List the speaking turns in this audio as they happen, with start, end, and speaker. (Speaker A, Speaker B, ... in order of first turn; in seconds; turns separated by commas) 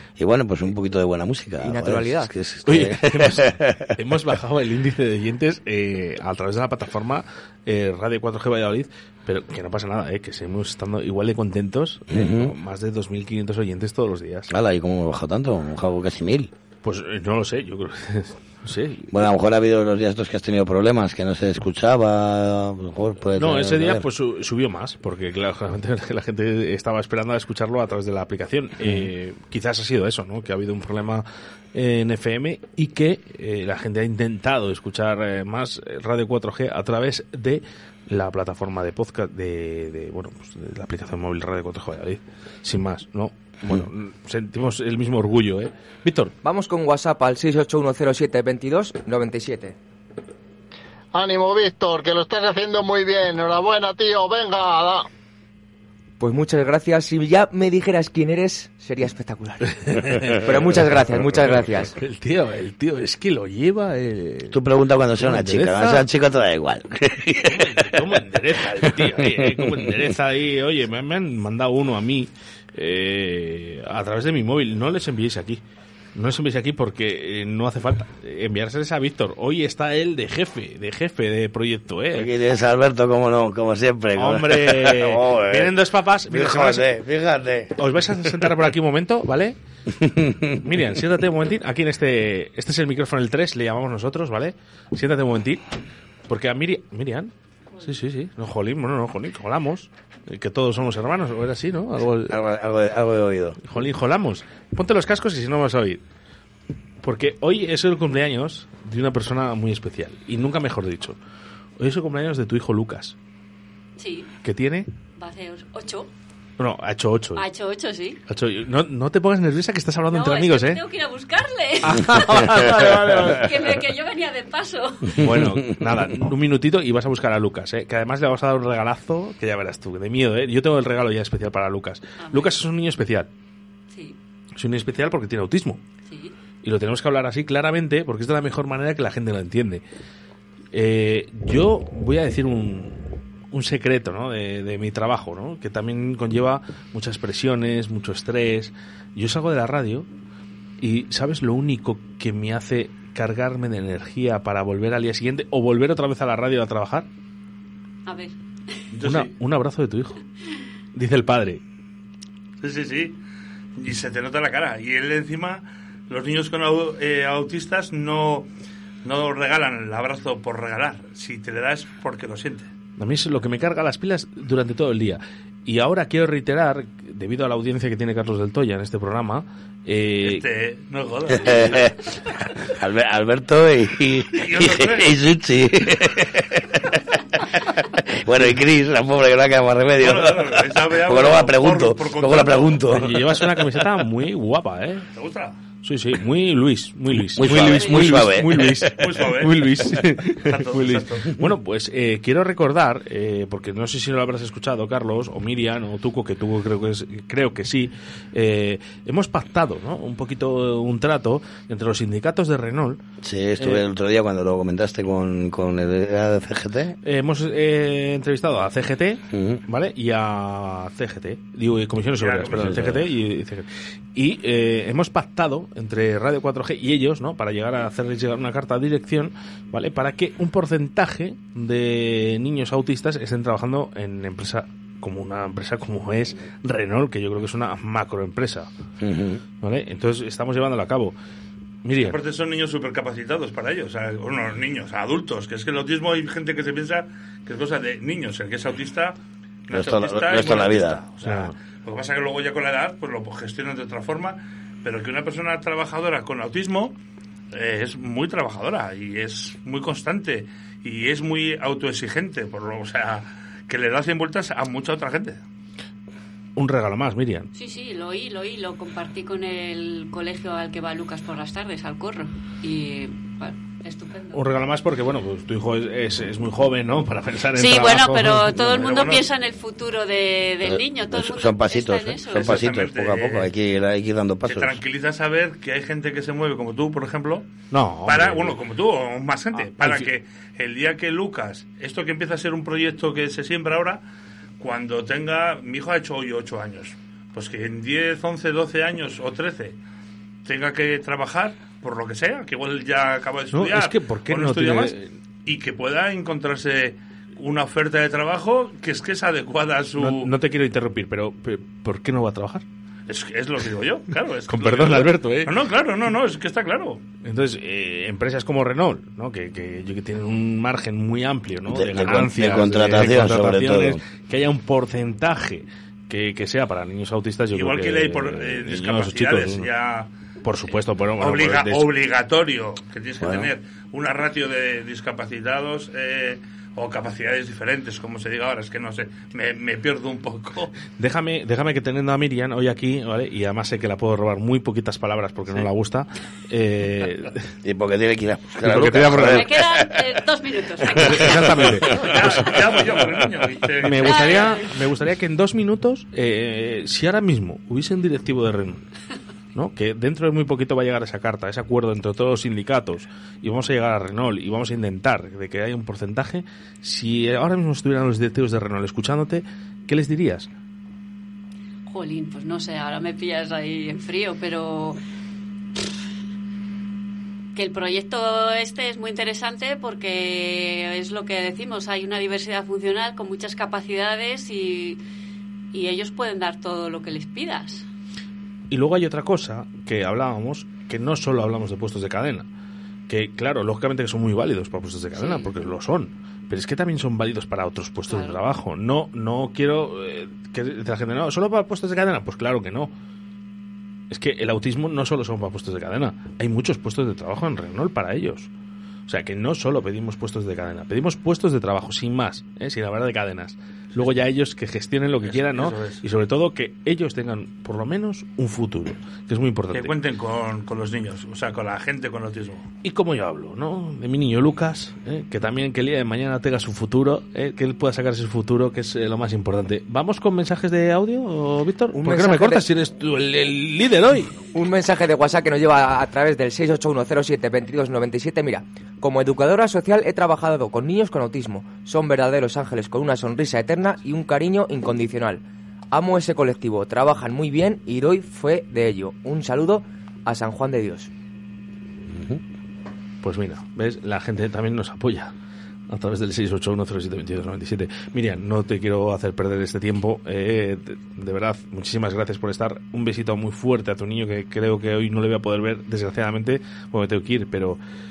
Speaker A: 0.2-3.9, Speaker B: 1.6-2.3, Speaker C: 2.7-14.5, Speaker A: 12.1-12.5, Speaker A: 14.5-16.5, Speaker C: 16.8-19.2, Speaker A: 19.1-24.1, Speaker C: 23.4-46.3, Speaker A: 28.8-29.1, Speaker B: 46.4-49.8, Speaker D: 51.1-55.1, Speaker B: 56.2-59.7, Speaker C: 60.0-60.8, Speaker B: 60.4-61.9, Speaker C: 61.9-64.5, Speaker A: 64.5-68.1, Speaker C: 65.2-66.1, Speaker C: 67.5-75.6, Speaker A: 68.8-70.0, Speaker C: 76.2-82.3, Speaker A: 82.1-88.3, Speaker C: 84.2-86.9, Speaker C: 87.8-89.6, Speaker A: 90.0-90.9, Speaker C: 90.7-95.6, Speaker C: 96.3-97.3, Speaker C: 97.8-102.3, Speaker A: 102.3-103.6, Speaker C: 103.6-106.0, Speaker C: 107.0-111.2, Speaker C: 111.8-113.2, Speaker E: 114.0-114.3, Speaker C: 114.4-114.9, Speaker E: 115.2-116.1, Speaker C: 116.6-117.4, Speaker E: 117.4-118.2, Speaker C: 118.3-120.8, Speaker E: 120.1-122.6, Speaker C: 121.9-123.4, Speaker E: 123.2-125.0, Speaker A: 125.2-126.2, Speaker C: 125.2-133.3, Speaker E: 132.2-132.5, Speaker E: 133.9-134.2, Speaker C: 134.6-135.8, Speaker E: 136.1-136.3, Speaker C: 136.6-139.8, Speaker C: 140.7-150.1, Speaker C: 150.8-157.1, Speaker E: 158.1-158.3, Speaker F: 158.9-159.3, Speaker C: 159.0-160.2, Speaker C: 160.9-161.6, Speaker F: 162.6-163.2, Speaker F: 163.8-168.5, Speaker F: 169.0-172.7, Speaker C: 173.0-180.4, Speaker F: 180.2-181.9, Speaker A: 181.3-181.9, Speaker A: 182.8-186.5, Speaker F: 184.3-185.2, Speaker A: 188.2-193.5, Speaker F: 190.0-192.8, Speaker C: 193.0-195.1, Speaker F: 195.1-195.6, Speaker C: 195.8-213.0, Speaker A: 197.2-198.9, Speaker E: 197.7-198.0, Speaker F: 199.0-199.8, Speaker F: 200.4-201.3, Speaker A: 213.2-217.0, Speaker C: 213.6-213.8, Speaker C: 217.0-238.7, Speaker A: 219.3-219.6, Speaker F: 222.2-222.8, Speaker A: 222.6-223.0, Speaker A: 239.0-239.4, Speaker C: 239.6-241.2, Speaker C: 241.8-242.2, Speaker F: 242.0-249.2, Speaker A: 249.7-251.1, Speaker F: 249.7-256.9, Speaker C: 251.2-251.6, Speaker F: 257.5-265.4, Speaker C: 266.6-267.5, Speaker E: 267.6-274.5, Speaker C: 274.3-278.5, Speaker E: 277.6-282.5, Speaker F: 278.8-279.3, Speaker A: 280.6-284.8, Speaker F: 282.4-283.5, Speaker F: 284.5-287.5, Speaker C: 287.7-288.6, Speaker F: 288.1-294.0, Speaker C: 289.6-290.1, Speaker F: 294.6-299.8, Speaker F: 300.4-304.9, Speaker C: 303.5-305.1, Speaker F: 305.5-310.3, Speaker C: 310.0-312.6, Speaker F: 313.1-317.0, Speaker C: 314.5-315.6, Speaker C: 317.2-329.7, Speaker A: 321.7-324.0, Speaker F: 327.5-330.1, Speaker C: 330.4-331.9, Speaker F: 331.2-340.7, Speaker A: 333.2-333.5, Speaker C: 341.0-347.3, Speaker A: 347.6-349.9, Speaker C: 348.6-349.5, Speaker E: 349.3-352.1, Speaker C: 351.1-351.9, Speaker A: 351.1-351.4, Speaker F: 352.0-354.4, Speaker C: 353.8-358.8, Speaker E: 354.0-354.6, Speaker C: 359.6-370.5, Speaker E: 371.9-375.0, Speaker E: 377.6-385.0, Speaker E: 385.7-387.8, Speaker C: 388.7-392.5, Speaker C: 393.1-402.9, Speaker E: 395.2-395.5, Speaker E: 398.1-398.4, Speaker C: 404.1-408.5, Speaker C: 409.1-419.9, Speaker F: 415.2-416.0, Speaker F: 419.7-422.7, Speaker C: 422.8-434.4, Speaker B: 431.9-432.6, Speaker B: 434.5-451.1, Speaker A: 452.1-452.4, Speaker C: 453.2-455.3, Speaker C: 455.9-467.8